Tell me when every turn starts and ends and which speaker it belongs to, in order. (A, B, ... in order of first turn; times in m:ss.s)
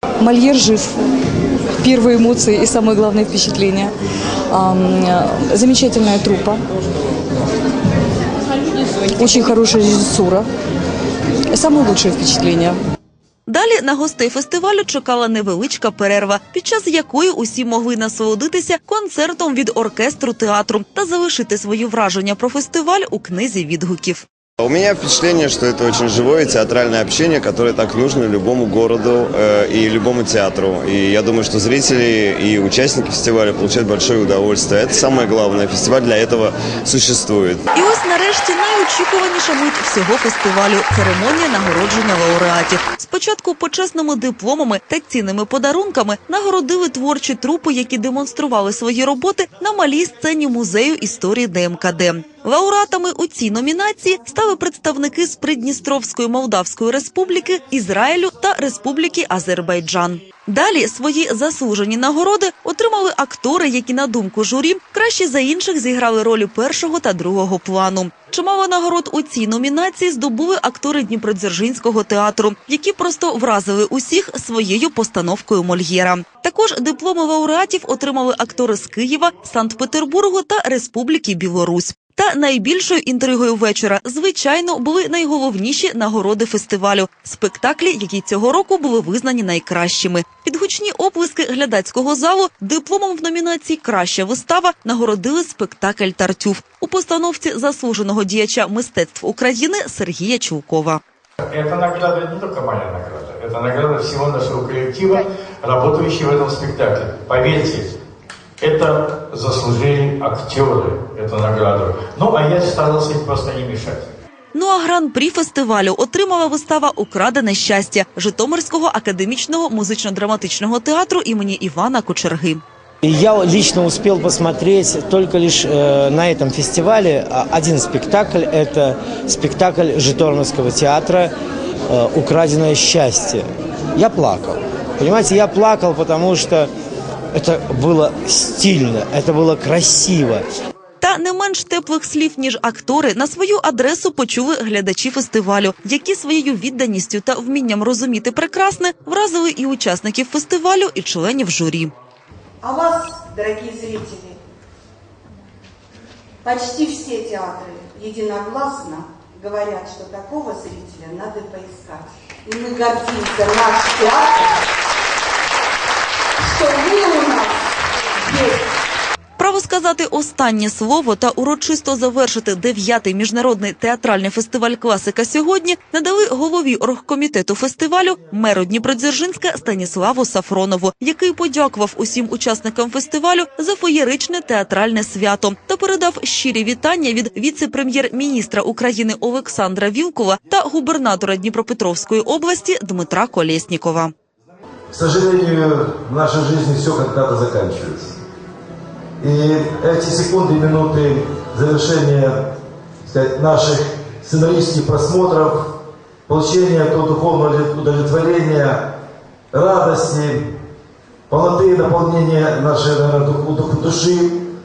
0:00.2-0:00.9 A
0:01.8-0:03.9 A
0:04.5-0:06.6 A
0:09.2-0:10.5 A
0:11.5-0:12.8 A
0:13.5-0:24.2 B
0:24.6-0:37.7 C
0:37.7-1:41.0 B
1:41.5-1:47.9 D
1:48.6-1:54.1 D
1:54.5-2:02.6 B
2:03.0-2:11.3 E
2:11.9-2:16.7 E
2:17.3-2:20.5 E
2:21.0-2:31.9 B
2:32.6-2:34.4 F
2:36.4-2:44.6 F
2:46.4-2:47.7 F
2:48.2-2:48.7 F
2:49.4-3:14.1 B
3:14.9-3:18.2 G
3:19.2-3:22.3 G
3:23.0-3:28.8 G
3:29.5-3:30.5 G
3:31.3-3:34.4 G